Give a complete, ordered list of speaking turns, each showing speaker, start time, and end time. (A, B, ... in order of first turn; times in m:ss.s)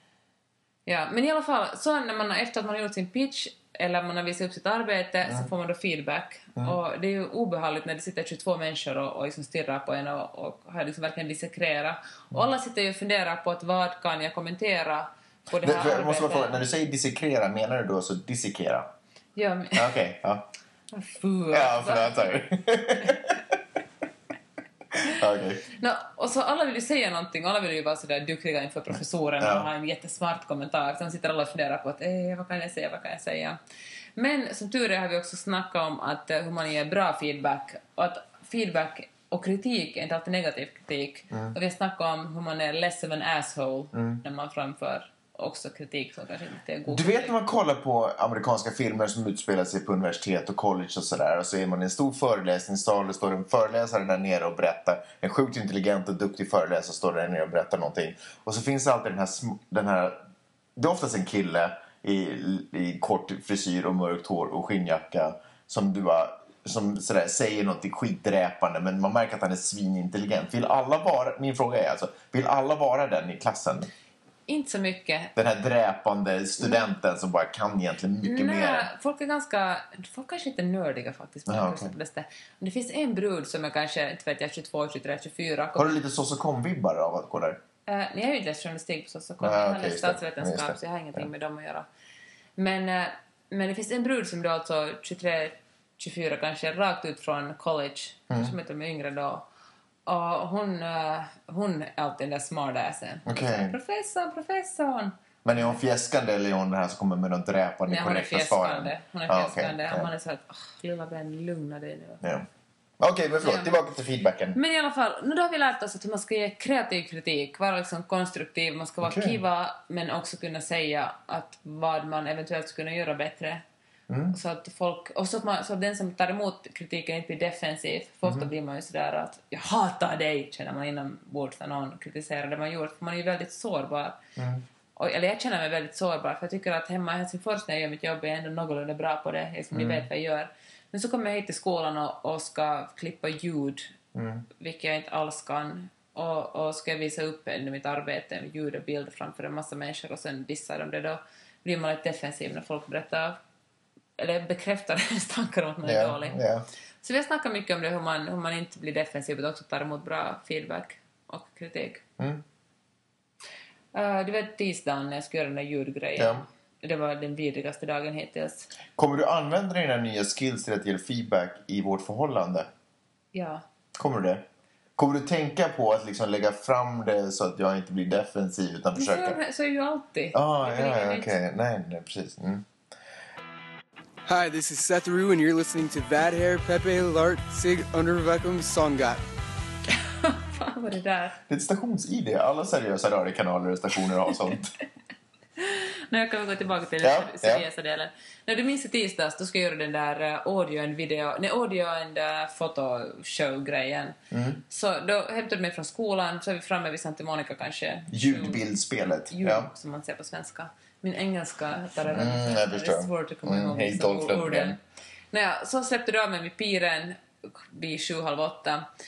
0:00.8-0:16.6 A
0:15.6-0:18.9 B
0:19.3-0:19.9 A
0:19.7-0:20.5 B
0:20.9-0:22.4 A
0:21.5-0:23.4 B
0:25.1-0:25.6 B
0:25.8-0:33.6 A
0:29.4-0:29.7 B
0:34.2-0:47.4 A
0:43.9-0:44.2 B
0:46.9-1:00.2 B
1:00.8-1:13.9 B
1:14.5-1:15.3 A
1:15.4-1:18.9 B
1:16.6-1:16.9 A
1:18.2-1:26.0 A
1:21.5-1:21.9 B
1:25.7-1:27.6 B
1:27.9-1:31.8 A
1:29.4-1:31.2 B
1:32.6-1:39.4 A
1:40.0-1:45.8 A
1:43.2-1:43.7 B
1:45.4-1:50.1 B
1:47.9-1:52.2 A
1:53.0-1:54.6 B
1:53.4-1:53.8 A
1:54.5-2:03.6 A
1:59.0-1:59.4 B
2:04.1-2:04.4 B
2:04.3-2:14.2 A
2:14.4-2:14.6 B
2:15.0-2:23.9 A
2:19.7-2:20.1 B
2:24.1-2:24.4 B
2:24.6-2:33.4 A
2:34.2-2:36.4 A
2:35.8-2:36.7 B
2:37.0-2:42.0 A
2:43.9-2:48.7 A
2:46.2-2:46.4 B
2:49.0-2:52.7 B
2:53.3-2:53.6 A
2:54.0-2:54.4 B
2:55.0-2:59.4 B
2:59.0-3:01.4 A
3:00.3-3:02.7 B
3:04.2-3:09.2 C
3:09.9-3:11.4 A
3:11.5-3:14.7 B
3:15.6-3:24.1 A
3:17.0-3:17.6 B
3:24.3-3:24.6 B
3:24.7-3:28.6 A
3:28.1-3:29.7 B
3:29.3-3:34.8 A
3:32.0-3:34.8 B
3:35.3-3:38.8 A